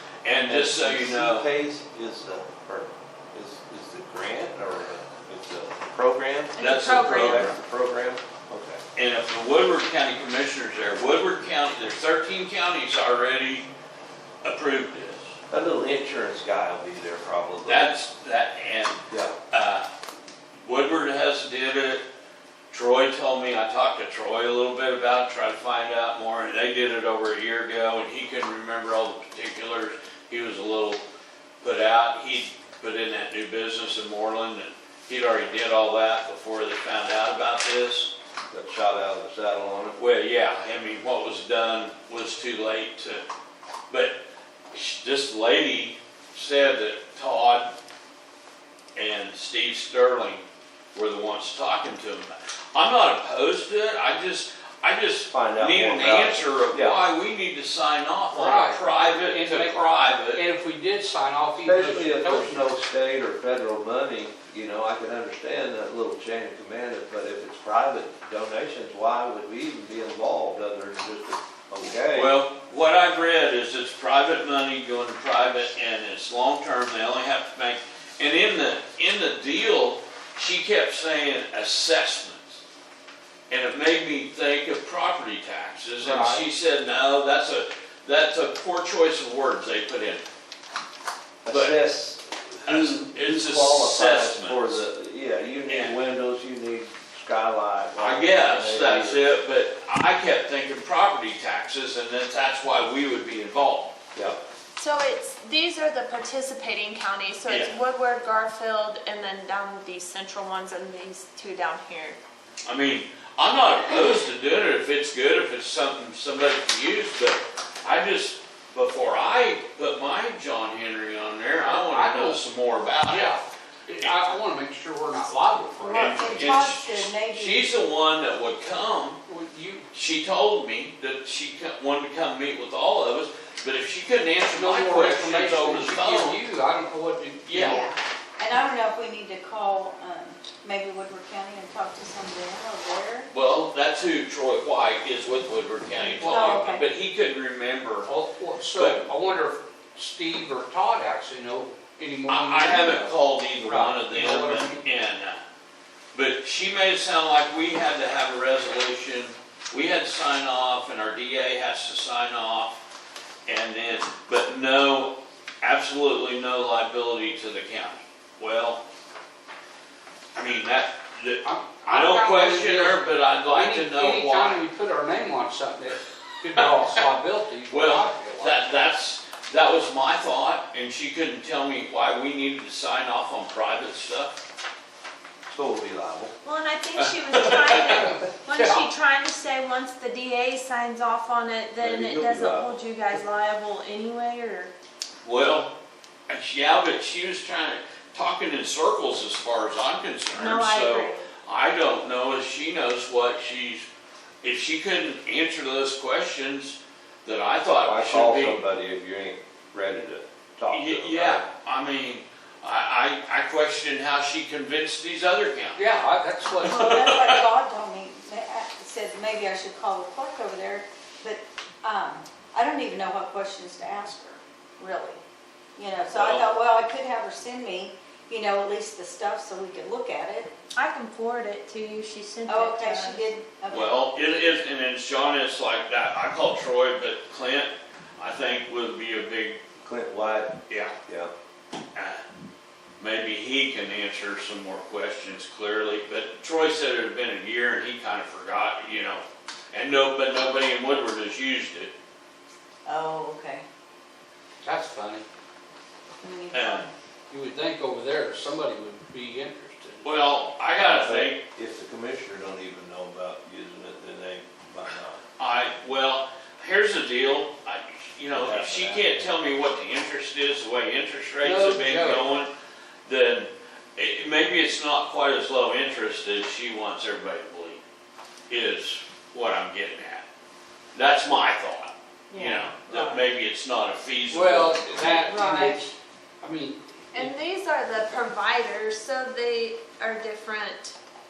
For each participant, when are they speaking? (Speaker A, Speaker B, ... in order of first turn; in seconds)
Speaker A: 0.2-1.5, 6.6-7.5, 9.0-13.7, 14.4-15.3, 17.6-19.9, 20.6-22.1, 22.7-31.0, 31.6-38.1, 40.0-43.2, 43.9-44.2, 44.7-47.7, 49.0-50.4, 50.9-60.4, 72.1-82.6, 83.5-90.2, 91.5-91.8, 92.7-94.8, 95.7-96.0, 98.0-104.0, 107.5-107.8, 112.7-123.4, 125.9-129.2, 129.9-136.4, 137.5-137.8, 143.3-148.1, 148.7-149.1, 152.3-155.4, 156.1-162.8, 163.5-168.8, 170.3-174.7, 176.6-177.0, 177.7-184.3, 187.0-188.2, 195.2-195.7, 196.3-203.9, 204.4-208.6, 210.7-215.8, 216.7-217.4, 226.1-226.5, 233.7-239.6, 240.7-240.9, 241.9-242.2, 243.0-251.9, 256.5-256.9, 260.0-261.4, 265.4-272.5, 273.1-277.8, 278.5-280.2, 280.9-285.0
Speaker B: 0.4-8.8, 15.5-17.9, 19.1-19.4, 38.5-40.0, 55.3-57.0, 61.6-72.3, 91.4-99.2, 185.5-186.3, 191.8-192.8, 207.8-211.5, 239.8-241.3, 260.8-265.2, 268.3-269.4, 282.9-283.2
Speaker C: 6.6-7.5, 104.8-112.2, 186.4-194.7, 200.3-201.2, 230.8-233.3, 282.3-282.7, 285.0-285.9, 287.1-291.0
Speaker D: 58.3-59.8, 60.3-62.6, 86.0-86.5, 121.6-122.4, 123.1-126.6, 129.3-129.9, 134.5-137.9, 146.0-146.7, 148.0-154.8, 171.4-178.8, 187.9-188.8, 215.8-217.2, 254.6-255.3, 257.3-260.1, 271.4-272.3, 284.3-287.4
Speaker E: 125.8-127.7, 137.6-143.3, 146.2-146.8, 216.6-225.2, 225.8-230.5, 232.5-234.0, 252.8-253.6, 256.2-256.9